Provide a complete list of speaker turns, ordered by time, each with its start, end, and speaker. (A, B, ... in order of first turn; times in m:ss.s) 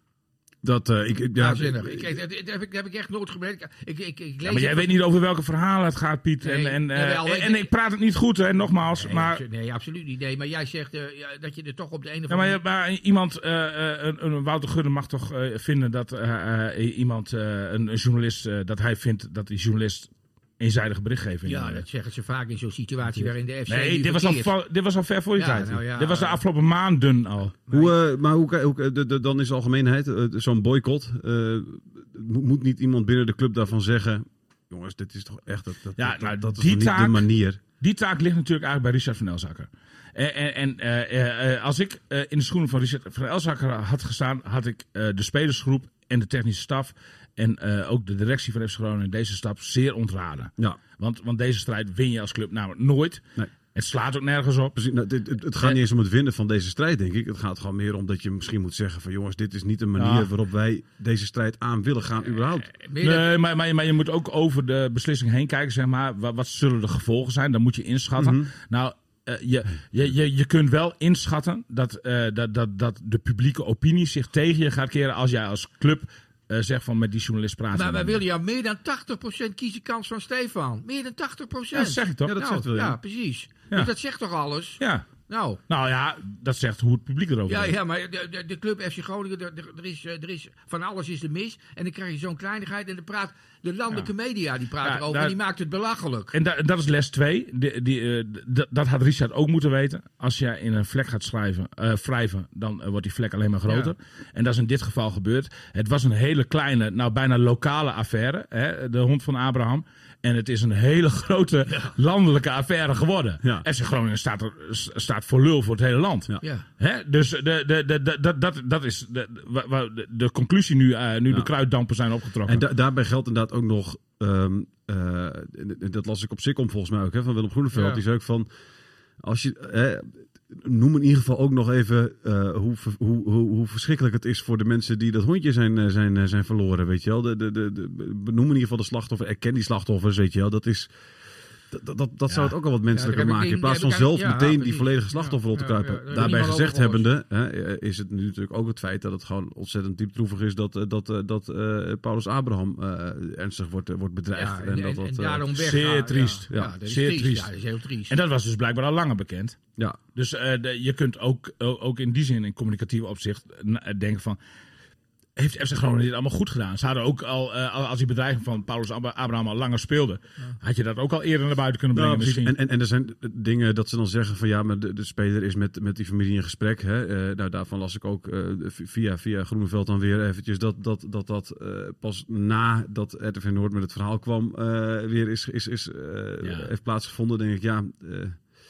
0:00.6-0:02.2 A
0:01.4-0:05.0 B
0:04.4-0:09.4 C
0:06.4-0:07.7 B
0:09.0-0:12.6 B
0:12.3-0:21.8 C
0:21.4-0:24.5 B
0:23.7-0:27.6 C
0:25.4-0:26.4 B
0:27.7-0:27.9 B
0:27.7-0:37.6 A
0:36.0-0:37.3 C
0:37.8-0:54.8 C
0:54.8-1:02.7 A
1:00.0-1:00.3 C
1:02.7-1:03.3 B
1:03.0-1:18.2 C
1:08.2-1:08.5 A
1:17.7-1:25.6 B
1:21.7-1:22.4 C
1:22.3-1:23.0 A
1:24.8-1:25.1 C
1:25.7-1:27.8 C
1:27.5-1:36.4 B
1:34.8-1:35.4 C
1:36.3-2:02.7 C
1:43.7-1:43.9 B
2:02.4-2:08.5 A
2:07.7-2:08.0 B
2:09.2-2:20.9 A
2:21.7-2:35.8 A
2:22.9-2:27.1 B
2:34.3-2:38.1 B
2:35.6-2:37.5 C
2:36.5-2:36.8 A
2:38.1-2:39.6 C
2:40.2-2:44.4 C
2:45.4-2:52.6 C
2:51.9-3:08.4 A
3:06.4-3:06.7 C